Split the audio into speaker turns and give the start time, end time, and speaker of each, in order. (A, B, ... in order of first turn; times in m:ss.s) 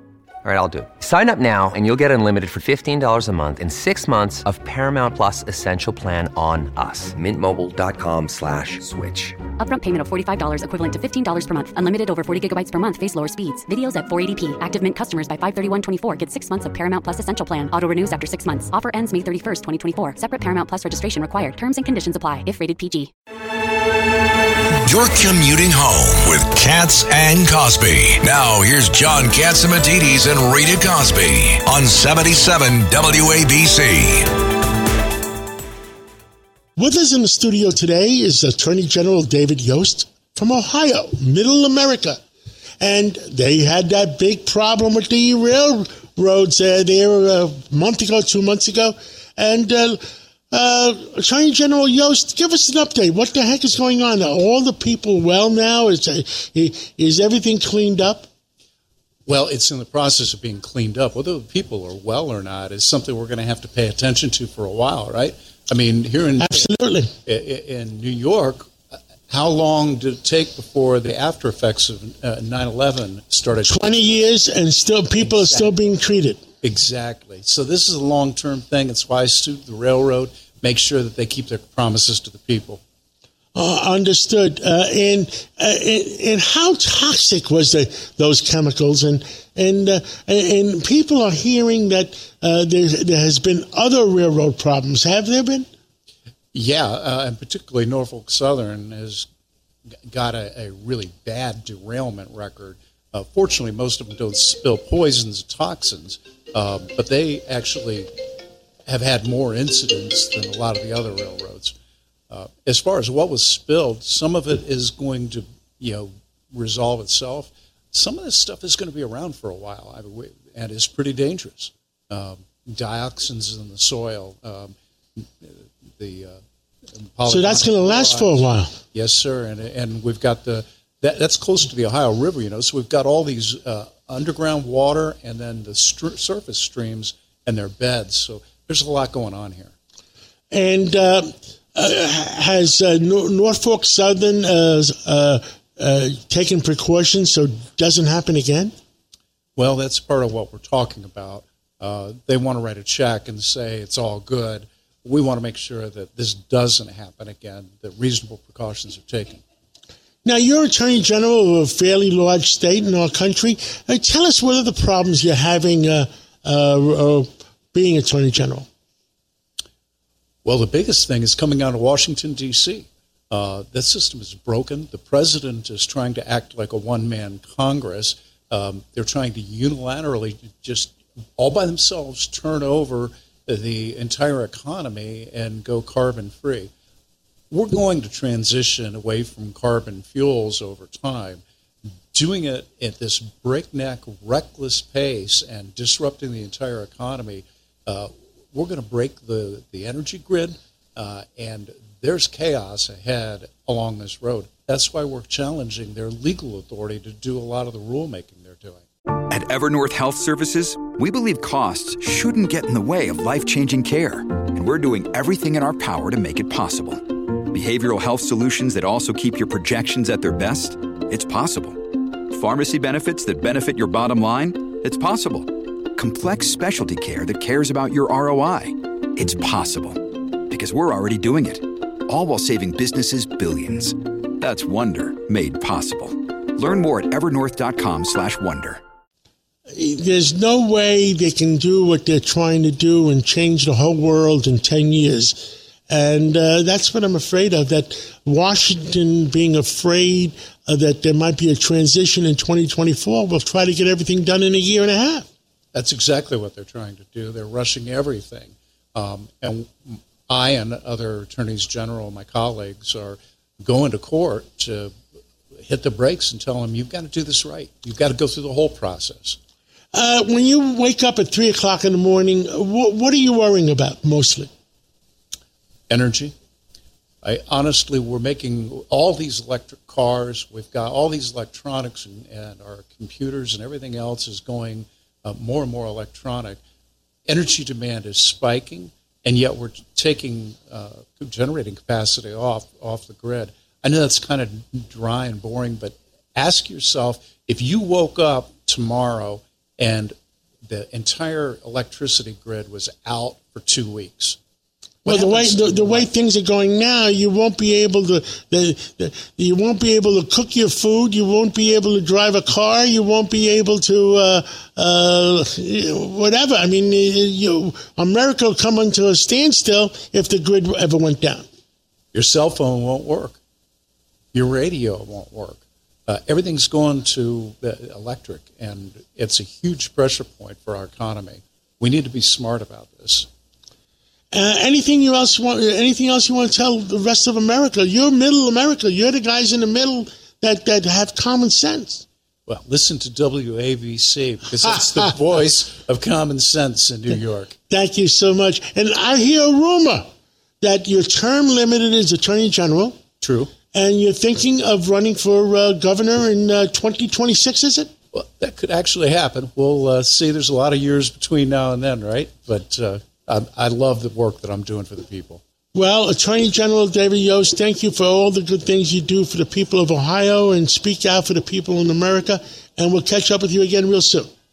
0:00.4-0:09.4 A
0:09.6-0:23.1 B
0:24.8-0:34.3 C
0:36.8-0:42.2 D
0:42.8-0:50.0 D
0:50.5-0:58.3 D
0:59.3-1:06.7 E
1:06.4-1:07.1 D
1:07.2-1:14.1 E
1:13.6-1:16.4 D
1:15.2-1:15.8 E
1:16.6-1:22.8 E
1:23.6-1:35.7 D
1:36.5-1:39.3 E
1:40.1-1:48.1 E
1:48.9-1:51.8 E
1:52.3-2:06.4 E
2:06.9-2:19.7 E
2:07.3-2:08.7 D
2:20.5-2:28.7 D
2:29.6-2:39.4 E
2:40.2-2:48.7 D
2:50.4-3:06.7 E
3:07.5-3:11.4 E
3:12.1-3:28.8 E
3:29.3-3:58.8 F
3:59.7-4:15.3 D
4:15.7-4:24.9 E
4:25.6-4:29.4 E
4:29.9-4:34.5 D
4:35.9-4:36.3 E
4:37.2-4:46.6 E
4:47.3-5:00.1 E
5:00.6-5:04.4 E
5:05.0-5:06.1 E
5:05.1-5:21.5 D
5:22.1-5:23.4 E
5:24.3-5:33.3 E
5:34.3-5:42.0 D
5:42.5-5:47.6 E
5:47.7-5:50.1 D
5:50.6-5:53.0 D
5:53.2-5:53.5 E
5:53.7-5:57.9 D
5:58.1-6:05.4 E
6:05.7-6:14.3 D